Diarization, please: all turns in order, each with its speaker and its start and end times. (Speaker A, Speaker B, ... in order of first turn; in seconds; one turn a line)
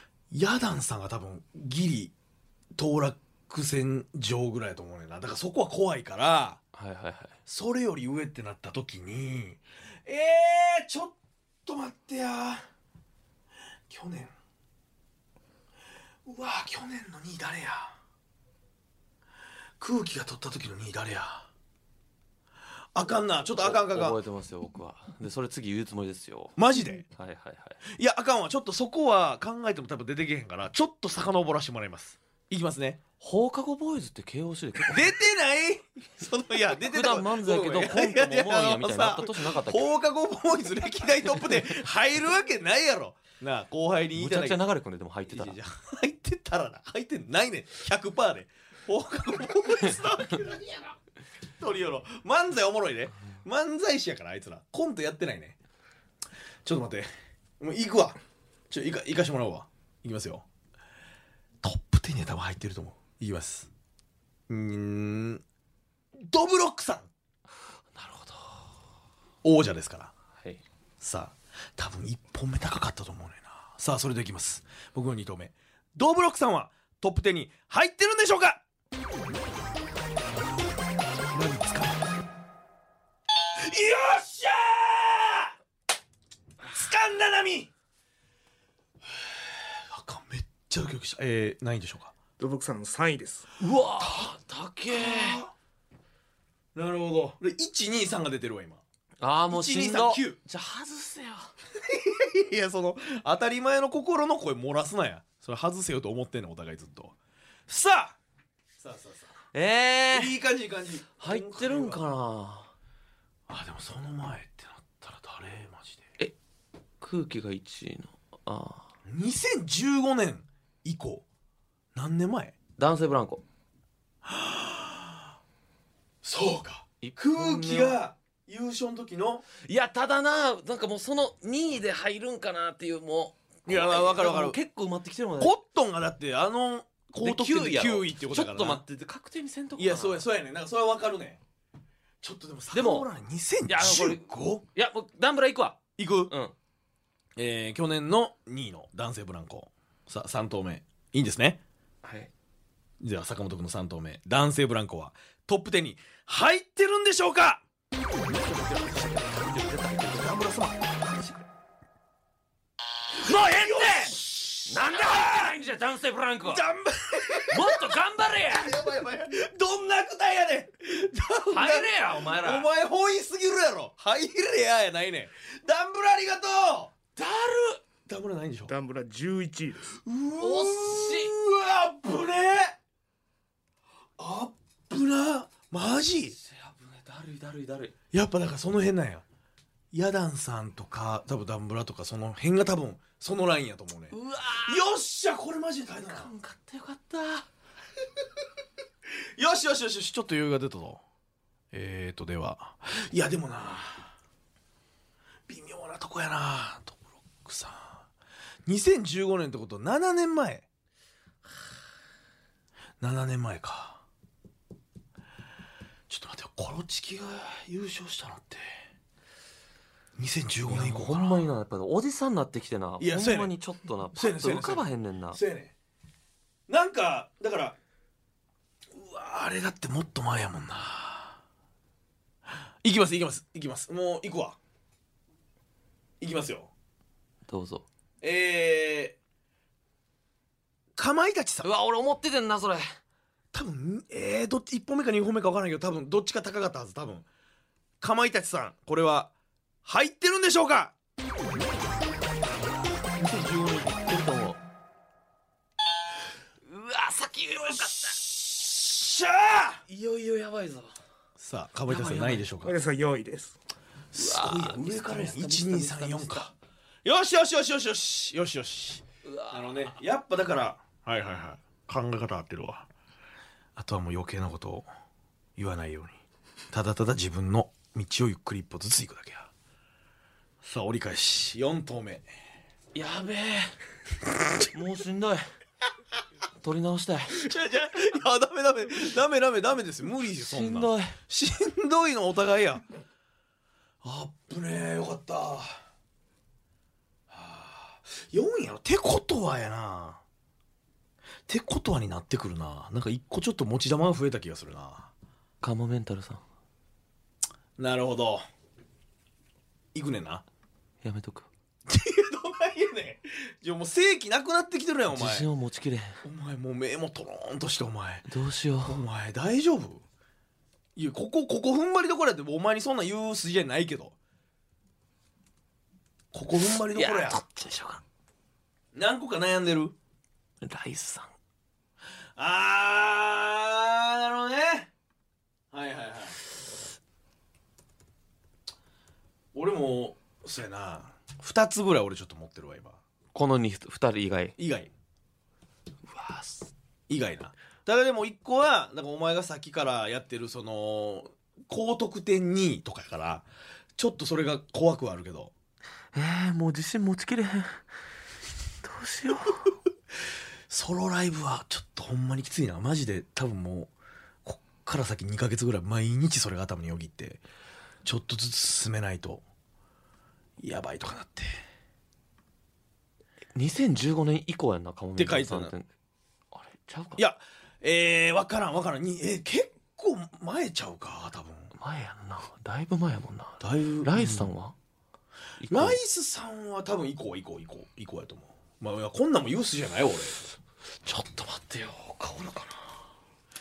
Speaker A: 0.3-2.1
Speaker A: 2.7-6.6
Speaker B: 6.7-7.4
Speaker A: 7.5-12.7
Speaker A: 13.9-14.3
Speaker A: 16.2-17.9
Speaker A: 19.8-21.5
Speaker A: 22.9-24.2
Speaker B: 23.6-26.6
Speaker A: 26.6-27.1
Speaker B: 27.1-27.8
Speaker A: 27.9-33.0
Speaker B: 33.2-35.2
Speaker A: 34.9-44.6
Speaker B: 36.8-39.9
Speaker B: 44.1-45.6
Speaker A: 45.3-51.0
Speaker A: 51.6-55.5
Speaker A: 56.6-58.2
Speaker A: 58.7-60.4
Speaker A: 61.6-63.7
Speaker A: 64.5-65.4
Speaker A: 66.2-67.1
Speaker B: 67.9-68.7
Speaker A: 69.4-70.1
Speaker A: 71.0-78.6
Speaker A: 81.3-82.1
Speaker A: 83.5-85.5
Speaker A: 86.6-87.7
Speaker A: 89.2-92.1
Speaker C: 92.4-93.5
Speaker B: 93.6-95.4
Speaker A: 94.0-94.3
Speaker A: 94.9-95.5
Speaker A: 96.7-98.8
Speaker B: 99.2-101.5
Speaker A: 99.5-100.4
Speaker A: 101.8-107.1
Speaker A: 107.7-108.2
Speaker A: 108.8-109.3
Speaker B: 109.5-110.3
Speaker A: 110.1-112.0
Speaker B: 111.2-112.7
Speaker A: 113.5-116.1
Speaker B: 117.0-118.9
Speaker A: 119.1-121.2
Speaker A: 121.9-122.5
Speaker B: 122.8-123.4
Speaker A: 124.2-125.3
Speaker A: 126.2-129.4
Speaker B: 127.0-128.0
Speaker B: 129.6-135.6
Speaker A: 133.7-134.6
Speaker A: 135.4-138.8
Speaker B: 137.2-140.2
Speaker A: 139.8-141.4
Speaker A: 142.2-144.6
Speaker B: 142.7-143.1
Speaker B: 143.7-146.5
Speaker A: 146.0-146.3
Speaker A: 147.3-151.6
Speaker B: 152.0-152.3
Speaker A: 153.0-157.6
Speaker B: 158.3-160.4
Speaker A: 160.2-161.4
Speaker B: 163.2-166.6
Speaker A: 163.3-165.5
Speaker A: 166.4-167.9
Speaker B: 167.5-168.8
Speaker A: 168.5-176.9
Speaker B: 171.5-172.7
Speaker B: 177.2-177.8
Speaker A: 178.1-178.7
Speaker C: 178.7-179.9
Speaker A: 179.9-182.8
Speaker B: 180.4-181.3
Speaker A: 184.2-186.4
Speaker B: 186.4-187.9
Speaker A: 188.1-189.2
Speaker A: 189.9-196.3
Speaker B: 194.1-194.8
Speaker B: 196.0-197.5
Speaker A: 199.3-201.0
Speaker A: 201.7-204.1
Speaker A: 205.5-208.0
Speaker A: 208.7-210.7
Speaker A: 213.0-214.0
Speaker A: 216.1-218.8
Speaker A: 220.2-221.4
Speaker B: 220.7-225.4
Speaker A: 223.0-223.6
Speaker A: 224.1-225.7
Speaker A: 226.7-227.8
Speaker A: 228.9-231.4
Speaker A: 232.8-234.6
Speaker A: 236.2-236.7
Speaker B: 237.5-237.8
Speaker A: 238.2-239.2
Speaker A: 240.9-241.7
Speaker B: 241.6-242.9
Speaker A: 243.5-247.2
Speaker A: 248.0-249.3
Speaker A: 249.8-250.9
Speaker A: 253.2-253.9
Speaker B: 253.2-254.6
Speaker B: 256.6-258.2
Speaker A: 257.8-259.8
Speaker B: 259.9-260.9
Speaker A: 261.4-262.8
Speaker B: 261.9-262.4
Speaker C: 262.6-263.6
Speaker A: 264.1-266.5
Speaker B: 264.1-266.5
Speaker A: 267.0-272.9
Speaker B: 269.2-269.9
Speaker A: 273.8-274.9
Speaker A: 275.6-276.2
Speaker A: 276.7-279.5
Speaker A: 280.6-282.3
Speaker B: 282.9-283.7
Speaker B: 284.5-285.4
Speaker B: 286.6-287.4
Speaker A: 287.4-292.8
Speaker B: 290.4-291.1
Speaker A: 294.0-295.8
Speaker A: 297.3-300.2
Speaker A: 301.5-305.1
Speaker B: 305.6-306.4
Speaker A: 307.8-308.4
Speaker A: 309.9-310.4
Speaker B: 311.0-311.5
Speaker A: 311.9-315.5
Speaker B: 315.1-316.2
Speaker A: 316.2-318.3
Speaker B: 318.3-319.0
Speaker A: 318.8-320.0
Speaker A: 320.9-324.1
Speaker A: 326.3-327.4
Speaker B: 326.9-328.0
Speaker A: 328.9-329.9
Speaker B: 330.6-331.3
Speaker A: 332.4-334.9
Speaker A: 335.7-336.4
Speaker A: 339.5-343.0
Speaker B: 343.3-344.5
Speaker A: 344.6-344.9
Speaker B: 346.1-346.7
Speaker A: 347.1-353.4
Speaker A: 354.0-355.5
Speaker B: 356.1-357.8
Speaker B: 358.8-359.7
Speaker A: 360.7-363.9
Speaker A: 364.4-367.4
Speaker A: 368.0-369.4
Speaker A: 370.6-371.6
Speaker B: 373.5-375.9
Speaker A: 375.2-375.7
Speaker B: 376.5-377.2
Speaker A: 377.2-381.7
Speaker B: 381.8-384.7
Speaker A: 383.6-384.5
Speaker B: 385.6-386.0
Speaker A: 385.7-390.4
Speaker B: 391.0-392.9